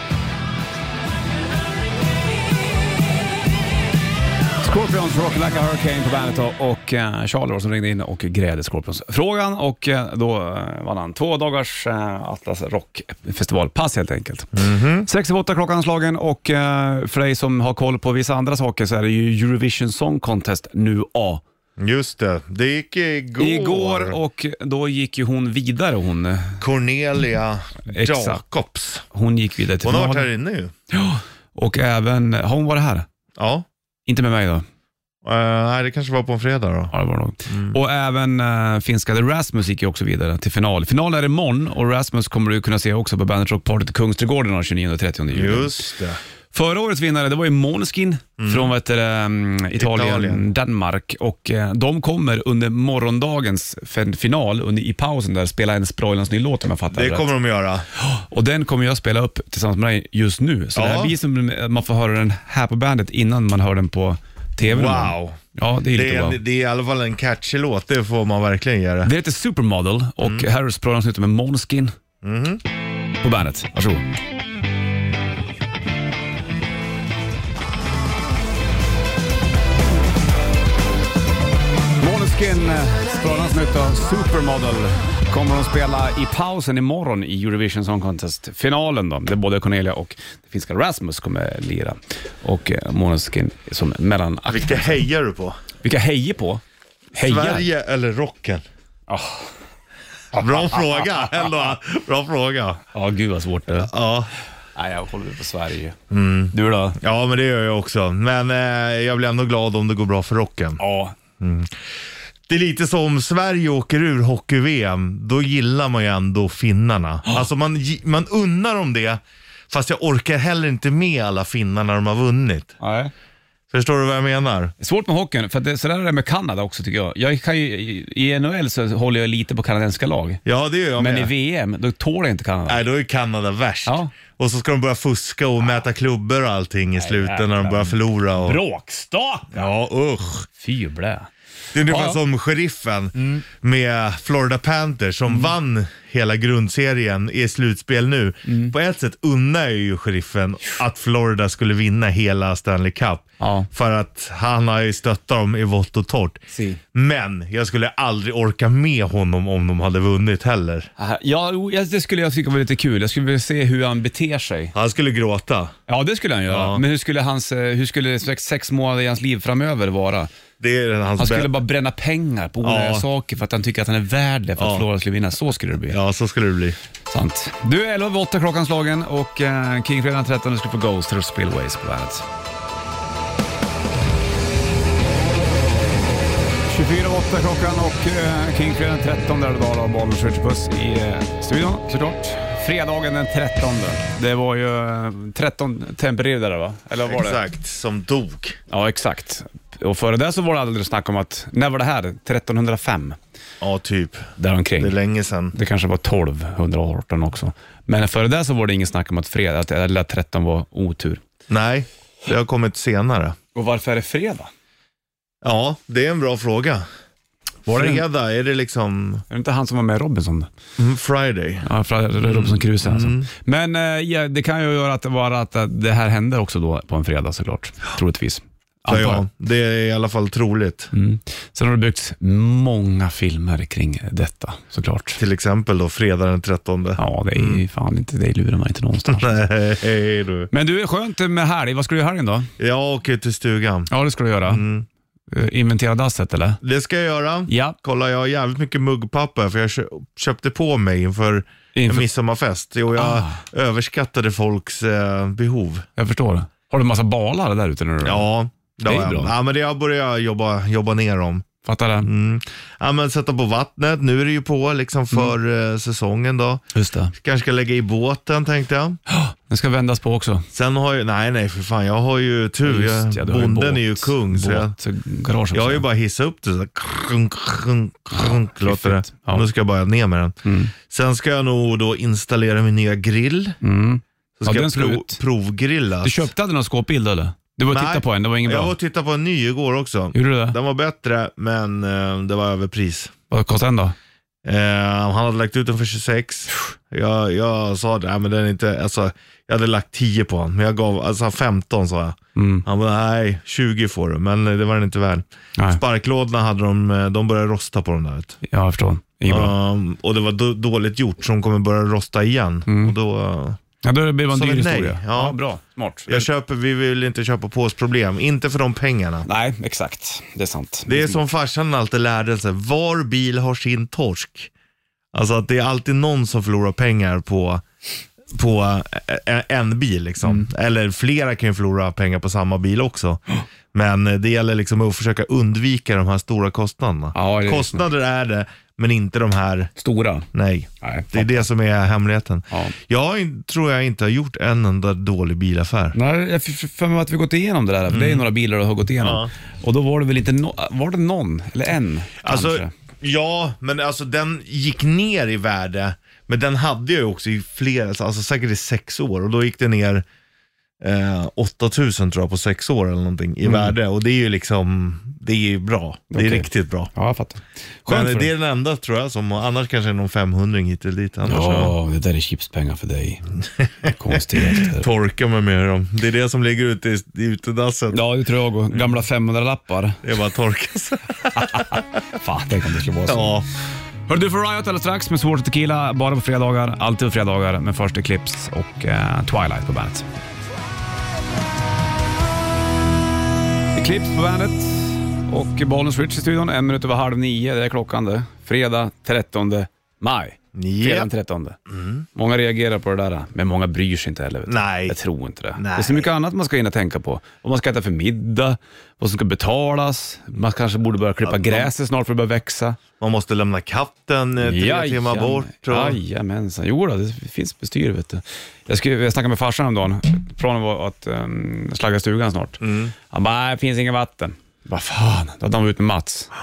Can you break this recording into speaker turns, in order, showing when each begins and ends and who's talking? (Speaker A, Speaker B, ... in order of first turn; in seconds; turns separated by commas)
Speaker A: 4.6-21.4, Speaker B: 14.5-15.1, Speaker B: 21.8-24.2, Speaker A: 23.4-26.6, Speaker B: 26.6-29.1, Speaker A: 27.9-28.4, Speaker A: 29.1-30.3, Speaker B: 29.8-30.7, Speaker A: 30.9-33.1, Speaker B: 33.4-33.6, Speaker A: 34.1-34.6, Speaker B: 35.2-36.9, Speaker A: 36.9-45.9, Speaker B: 37.5-37.8, Speaker B: 45.3-46.2, Speaker A: 46.5-57.3, Speaker B: 48.4-48.7, Speaker B: 49.8-50.5, Speaker B: 56.9-57.9, Speaker A: 58.0-66.4, Speaker B: 60.8-61.1, Speaker B: 64.6-65.4, Speaker B: 65.9-69.1, Speaker A: 69.0-71.9, Speaker B: 70.2-70.5, Speaker B: 72.2-72.6, Speaker A: 73.2-74.0, Speaker A: 82.0-95.0, Speaker B: 94.5-95.6, Speaker A: 95.8-96.6, Speaker A: 97.1-97.7, Speaker B: 97.2-98.6, Speaker A: 99.1-99.5, Speaker B: 100.3-102.8, Speaker A: 100.3-101.2, Speaker A: 102.9-103.9, Speaker B: 103.8-104.3, Speaker A: 104.8-106.0, Speaker B: 106.1-110.8, Speaker A: 106.5-107.0, Speaker A: 110.8-111.2, Speaker B: 111.4-111.8, Speaker B: 112.5-122.7, Speaker A: 122.8-123.1, Speaker B: 123.7-124.7, Speaker A: 124.8-130.4, Speaker B: 130.4-131.3, Speaker A: 131.0-132.8, Speaker B: 132.7-138.6, Speaker A: 133.9-134.1, Speaker A: 136.9-139.7, Speaker B: 139.5-140.5, Speaker A: 140.6-141.3, Speaker B: 141.7-156.4, Speaker A: 141.9-142.2, Speaker A: 143.2-143.4, Speaker A: 148.5-148.7, Speaker A: 153.4-153.7, Speaker A: 156.5-156.8, Speaker B: 156.9-160.9, Speaker A: 161.0-164.7, Speaker B: 164.7-165.7, Speaker A: 165.9-170.3, Speaker B: 166.5-166.8, Speaker B: 170.6-171.6, Speaker A: 171.2-176.0, Speaker B: 172.6-173.1, Speaker B: 174.6-174.9, Speaker B: 175.9-176.8, Speaker A: 177.1-182.2, Speaker A: 186.7-197.4, Speaker B: 197.0-198.6, Speaker A: 198.7-203.2, Speaker B: 203.6-205.6, Speaker A: 204.4-205.0, Speaker A: 205.5-211.2, Speaker B: 211.5-213.4, Speaker A: 213.6-214.5, Speaker B: 215.4-216.8, Speaker A: 217.7-218.1, Speaker B: 217.7-219.2, Speaker A: 219.3-220.5, Speaker B: 220.8-221.7, Speaker A: 221.6-229.2, Speaker B: 222.2-223.3, Speaker B: 228.9-230.9, Speaker A: 230.9-235.2, Speaker B: 235.2-237.6, Speaker A: 237.0-239.4, Speaker B: 239.1-240.5, Speaker A: 240.5-242.5, Speaker B: 242.6-243.9, Speaker A: 243.9-244.6, Speaker B: 244.4-244.9, Speaker A: 245.3-246.6, Speaker B: 246.6-255.9, Speaker A: 247.5-247.8, Speaker A: 251.8-252.1, Speaker A: 253.0-253.4, Speaker A: 256.0-258.3, Speaker B: 258.0-261.5, Speaker A: 258.9-259.3, Speaker A: 261.6-262.1, Speaker B: 262.0-266.6, Speaker A: 266.7-267.1, Speaker B: 267.1-269.0, Speaker A: 269.1-270.5, Speaker B: 270.5-274.8, Speaker A: 272.6-275.9, Speaker B: 275.5-283.6, Speaker A: 278.1-279.4, Speaker A: 280.4-280.7, Speaker A: 283.6-285.2, Speaker B: 284.4-286.3, Speaker A: 286.0-288.8, Speaker B: 287.7-293.1, Speaker A: 290.1-290.6, Speaker A: 293.3-293.9, Speaker B: 294.4-308.4, Speaker A: 302.4-302.6, Speaker A: 308.4-309.5, Speaker B: 309.3-313.6, Speaker A: 312.7-312.9, Speaker A: 313.8-316.3, Speaker B: 314.3-315.4, Speaker B: 316.1-319.3, Speaker A: 319.3-321.2, Speaker B: 320.9-324.5, Speaker B: 325.1-327.6, Speaker B: 328.3-333.2, Speaker B: 333.7-339.7, Speaker A: 337.1-337.9, Speaker A: 339.8-340.3, Speaker B: 340.3-346.0, Speaker A: 340.8-341.4, Speaker A: 345.9-352.7, Speaker B: 347.9-348.3, Speaker B: 349.0-349.3, Speaker B: 352.2-360.1, Speaker B: 360.8-366.9, Speaker A: 363.4-363.7, Speaker A: 366.1-368.3, Speaker B: 367.9-371.8, Speaker A: 371.3-373.2, Speaker B: 373.6-378.0, Speaker A: 373.9-374.9, Speaker A: 377.9-380.0, Speaker B: 380.0-381.8, Speaker A: 381.4-383.3, Speaker B: 383.1-383.5, Speaker A: 384.1-390.1, Speaker A: 393.8-401.6, Speaker B: 400.6-401.1, Speaker B: 401.7-402.0, Speaker A: 402.1-412.8, Speaker B: 404.5-405.0, Speaker B: 405.6-406.1, Speaker B: 411.2-411.7, Speaker B: 413.0-416.0, Speaker A: 414.4-426.3, Speaker B: 422.6-422.9